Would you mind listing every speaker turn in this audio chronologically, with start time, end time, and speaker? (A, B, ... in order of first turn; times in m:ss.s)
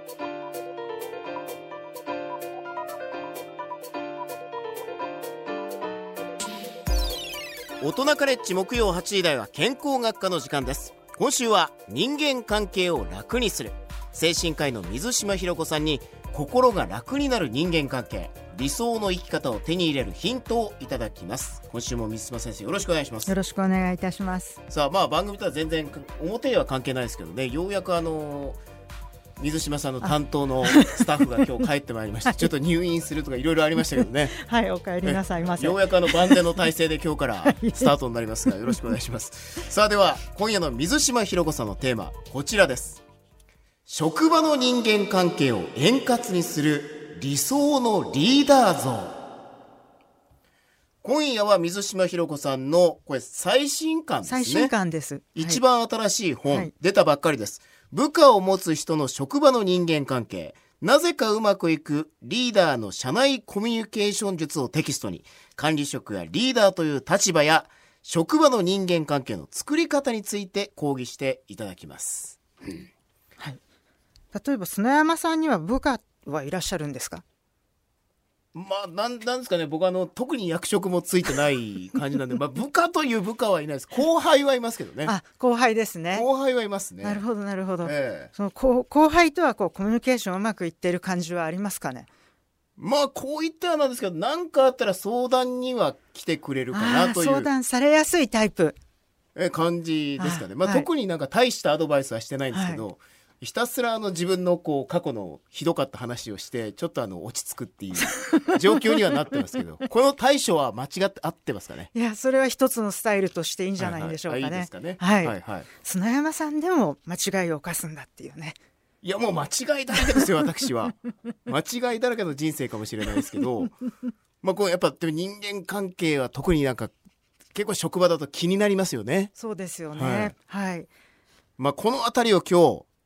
0:07.8-0:23.4 A
0:23.3-0:24.6 B
0:24.7-0:28.6 A
0:29.4-0:34.3 A
0:30.0-0:31.1 B
0:32.2-0:32.5 B
0:33.9-0:36.6 B
0:35.0-0:43.0 A
0:37.4-0:37.9 B
0:38.5-0:38.8 B
0:43.9-0:49.2 A
0:51.0-0:54.7 A
0:54.3-0:55.6 B
0:55.4-1:12.4 A
1:14.3-1:17.2 B
1:18.5-1:25.1 A
1:25.0-1:26.3 B
1:26.1-1:27.2 A
1:27.0-1:32.1 B
1:27.8-1:28.3 A
1:32.8-1:37.5 A
1:36.7-1:38.8 B
1:39.4-1:51.9 A
1:40.2-1:40.9 B
1:42.5-1:42.8 B
1:48.0-1:48.9 B
1:51.9-1:58.6 B
1:53.8-1:55.7 A
1:59.0-2:03.7 A
2:04.4-2:06.9 A
2:07.5-2:09.3 A
2:09.4-2:10.9 B
2:09.9-2:10.3 A
2:11.6-2:12.9 A